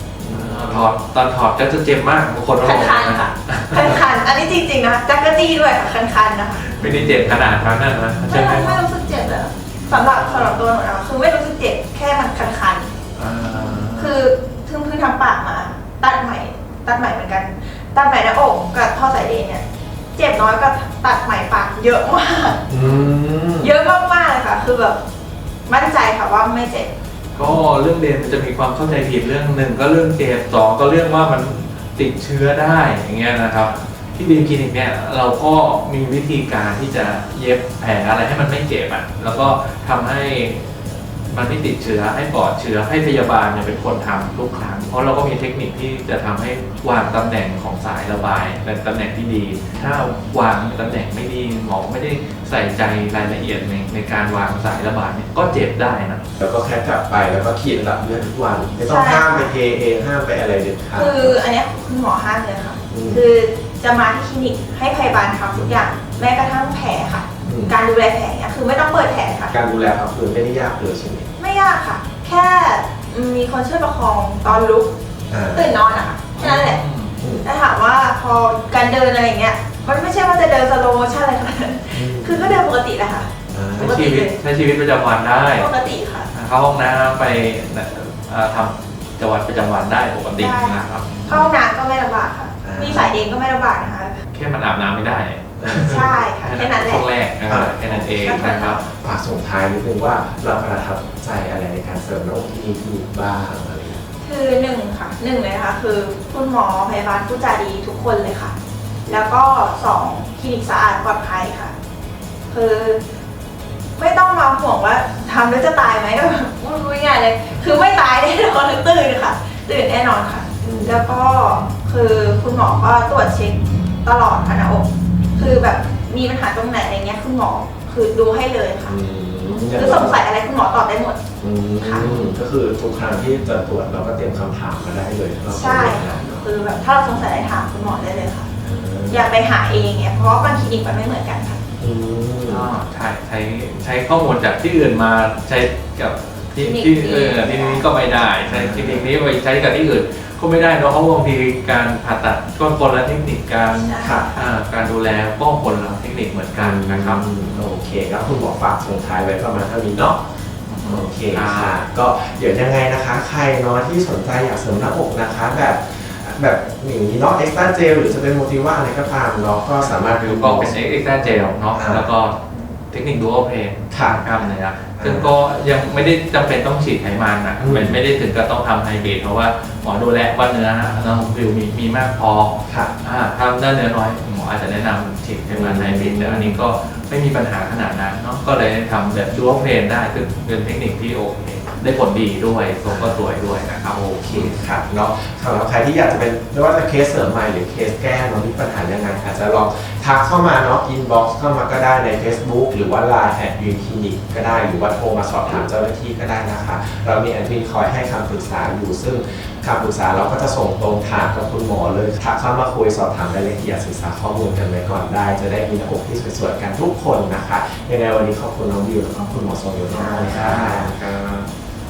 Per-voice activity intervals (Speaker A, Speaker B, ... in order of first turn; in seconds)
Speaker A: 0.2-0.9, 6.8-7.5, 22.7-23.7, 56.4-61.4, 62.9-63.2, 67.4-67.8, 69.5-71.3, 75.3-75.7, 77.2-77.5, 81.9-82.6, 83.5-84.0, 92.6-93.1, 95.6-96.2, 97.4-104.0, 120.6-121.0, 125.4-125.6, 128.8-130.2, 131.4-136.4, 138.6-139.3, 141.8-142.7, 148.5-149.1, 154.0-154.3, 156.6-160.2, 160.8-170.9, 171.7-172.1, 173.9-174.3, 175.0-175.3, 177.6-178.0, 185.5-186.6, 192.9-193.2, 193.9-220.9
Speaker B: 0.3-4.0, 6.6-8.8, 9.9-10.6, 13.2-14.1, 27.3-56.2, 76.3-77.2, 83.8-85.7, 86.3-91.5, 94.3-98.8, 132.0-132.3, 142.4-157.2, 160.7-161.8, 169.8-194.6, 220.2-221.5
Speaker C: 2.6-6.8, 8.3-12.9, 13.9-19.6, 20.1-22.7, 23.6-25.0, 25.7-26.9, 58.8-59.5, 60.9-69.5, 71.4-74.9, 75.5-76.8, 77.4-83.3, 83.8-84.4, 85.5-86.3, 90.4-94.2, 95.8-97.0, 98.2-98.8, 104.2-108.5, 109.1-111.7, 112.5-113.0, 114.0-129.0, 129.5-131.2, 135.5-138.5, 139.1-141.6, 146.6-147.9, 153.8-154.4, 219.9-220.3